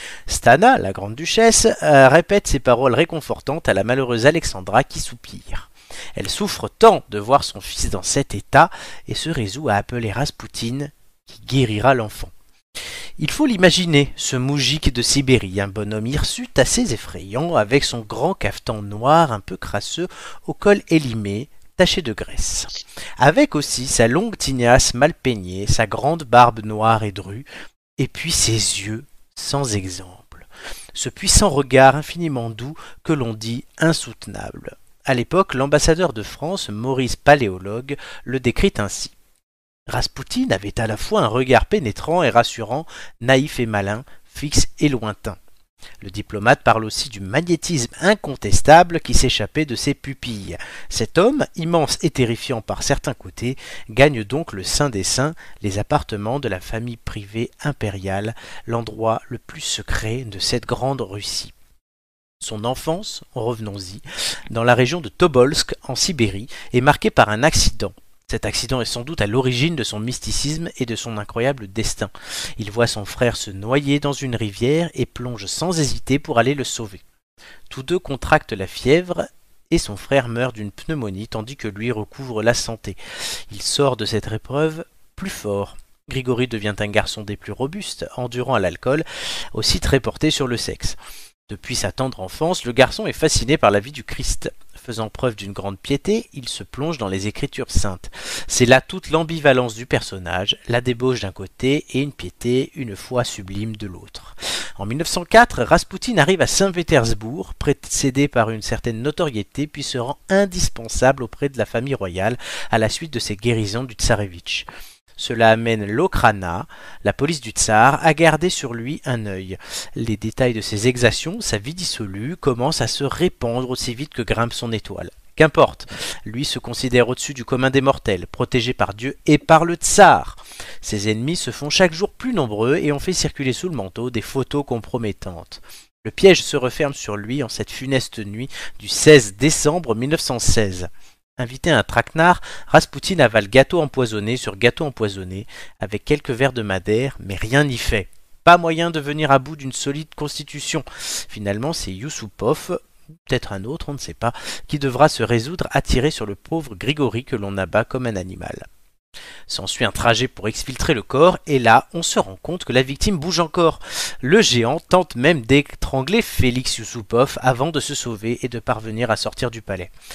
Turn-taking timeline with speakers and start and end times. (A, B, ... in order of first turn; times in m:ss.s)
0:00.3-0:12.3 A
0:13.2-0:27.4 A
0:28.0-0:39.1 A
0:39.9-0:45.4 A
0:46.0-1:01.5 A
1:02.4-1:17.0 A
1:17.7-1:23.0 A
1:23.5-1:31.0 A
1:31.5-1:54.7 A
1:55.2-2:38.6 A
2:39.5-2:49.9 A